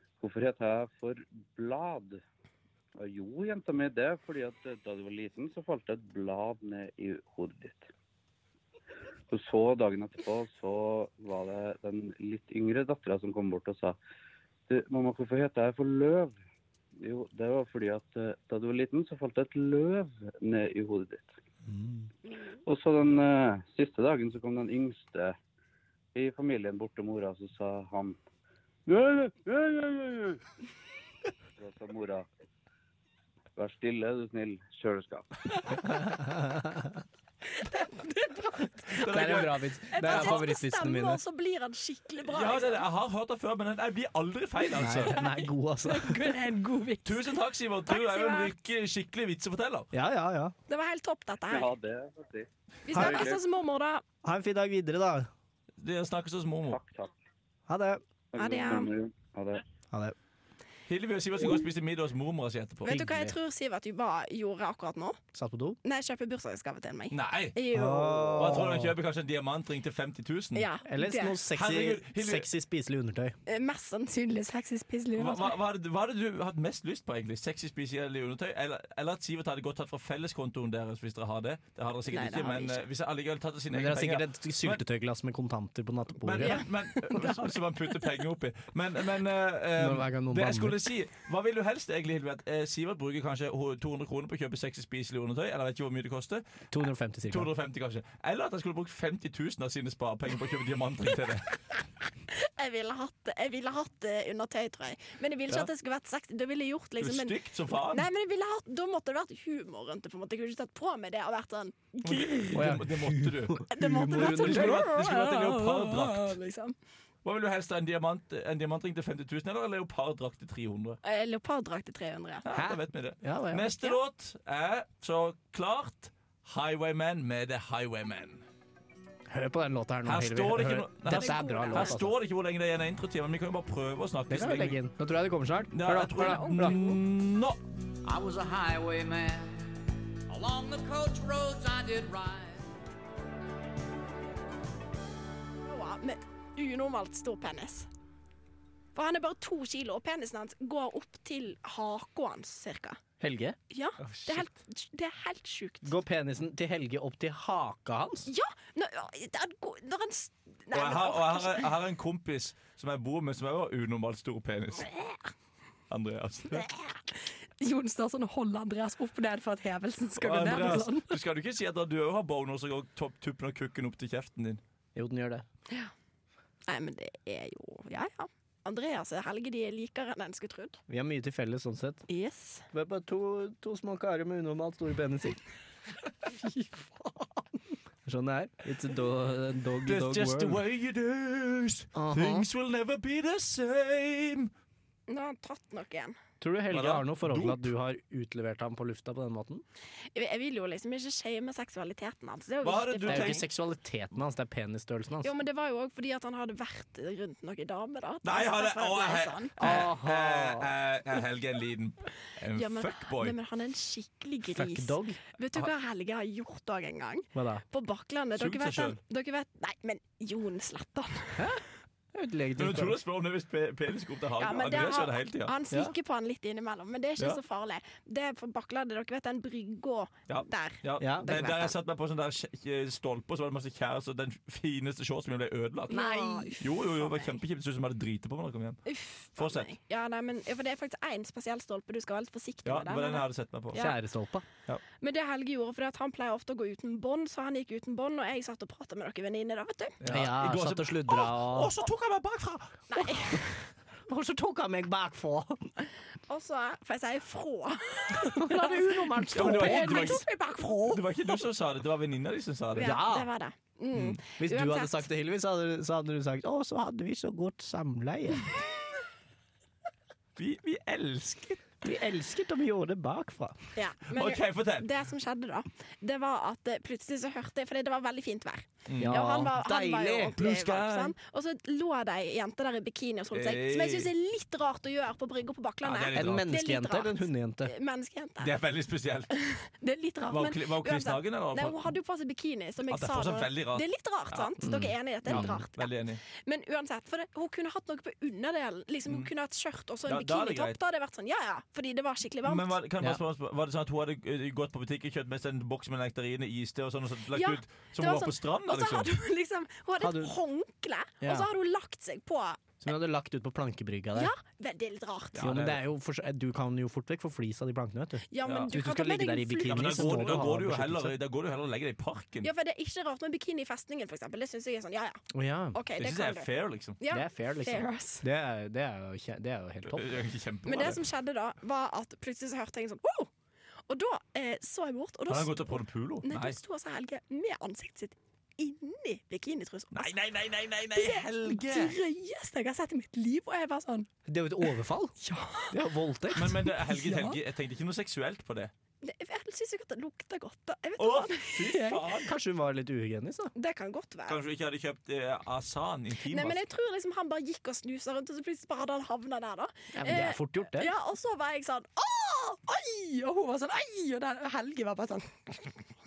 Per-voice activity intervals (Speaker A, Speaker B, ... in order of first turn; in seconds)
Speaker A: 0.2-2.2, 3.0-7.9, 9.3-13.9, 14.7-16.4, 17.0-21.3, 22.6-25.4, 26.1-28.2, 28.9-30.4, 31.6-32.2, 33.5-35.8, 51.5-53.4, 56.7-57.1, 58.3-59.6
Speaker B: 35.8-37.0, 39.0-41.2, 44.8-46.2, 49.9-50.5, 52.9-53.3, 54.2-55.3, 57.7-58.0, 62.9-63.3, 65.3-65.8, 67.7-68.9, 70.8-73.3, 83.7-86.6, 89.8-90.8, 96.7-97.5, 112.5-114.8, 122.5-123.7, 129.3-132.1, 134.3-136.8, 153.2-153.6, 155.8-158.3, 174.9-175.4, 180.9-182.0, 182.7-185.4, 186.8-187.1, 188.0-190.6, 191.9-192.4, 196.4-199.6, 203.1-205.3, 209.6-210.7, 214.5-215.2, 217.3-217.6, 221.3-221.6, 222.1-222.9, 231.0-231.3, 235.9-236.5, 243.7-244.4, 250.1-251.7, 253.3-255.7, 258.2-260.2, 262.8-263.3, 264.4-268.5, 271.8-273.6, 279.0-280.4, 286.1-287.7, 294.6-295.6, 310.0-310.3, 311.2-311.5, 312.8-314.3, 315.4-321.1, 325.3-325.8, 327.1-330.2, 344.3-345.1, 345.7-346.6, 352.2-353.5, 359.9-360.9
Speaker C: 37.5-42.8, 44.7-47.3, 47.9-48.5, 50.7-51.7, 52.8-54.0, 58.4-58.9, 62.8-65.2, 65.8-68.5, 70.5-71.4, 73.5-75.5, 82.1-82.8, 86.4-87.6, 102.3-112.7, 113.7-116.7, 121.0-122.5, 131.1-132.1, 136.1-137.0, 145.6-147.9, 148.9-153.0, 153.7-155.9, 158.3-161.7, 164.8-165.2, 166.5-171.2, 176.7-180.8, 182.1-182.7, 195.1-196.2, 200.1-203.4, 205.2-209.5, 212.5-221.5, 224.4-231.8, 235.9-237.4, 238.8-243.9, 245.0-250.0, 252.9-253.4, 256.3-261.4, 262.8-265.0, 273.7-288.6, 289.3-302.7, 307.3-312.7, 314.1-315.5, 318.3-320.4, 322.4-325.2, 325.7-328.2, 330.6-333.3, 333.9-335.7, 336.2-340.1, 340.9-344.1, 345.2-345.7, 346.3-347.4, 349.0-352.1, 353.5-354.4, 356.3-365.9
Speaker D: 38.9-40.5, 42.2-45.2, 47.0-49.9, 55.8-56.8, 60.9-63.1, 67.1-67.6, 68.3-70.7, 71.5-72.5, 75.2-84.8, 86.2-96.4, 97.3-101.5, 107.0-108.0, 112.0-116.4, 117.2-121.0, 122.4-128.4, 130.0-134.8, 135.7-137.6, 154.0-154.5, 160.7-164.9, 165.9-166.7, 170.2-174.6, 189.8-194.5, 196.7-197.7, 202.6-203.4, 208.2-213.3, 218.3-219.0, 222.6-225.5, 230.3-238.8, 239.4-239.7, 242.6-243.8, 250.0-253.0, 259.3-263.0, 263.9-264.2, 270.4-271.6, 274.1-274.9, 278.9-279.2, 280.3-281.1, 283.3-284.1, 285.8-286.4, 288.4-289.3, 290.3-291.9, 292.9-294.5, 295.2-296.2, 299.1-299.3, 300.1-300.8, 302.4-309.1, 315.3-315.8, 318.4-318.7, 319.6-322.5, 326.0-327.0, 329.9-331.0, 335.3-336.6, 339.9-341.9, 346.3-348.7, 351.0-352.3, 354.3-356.6
Speaker E: 138.0-139.7, 140.3-142.7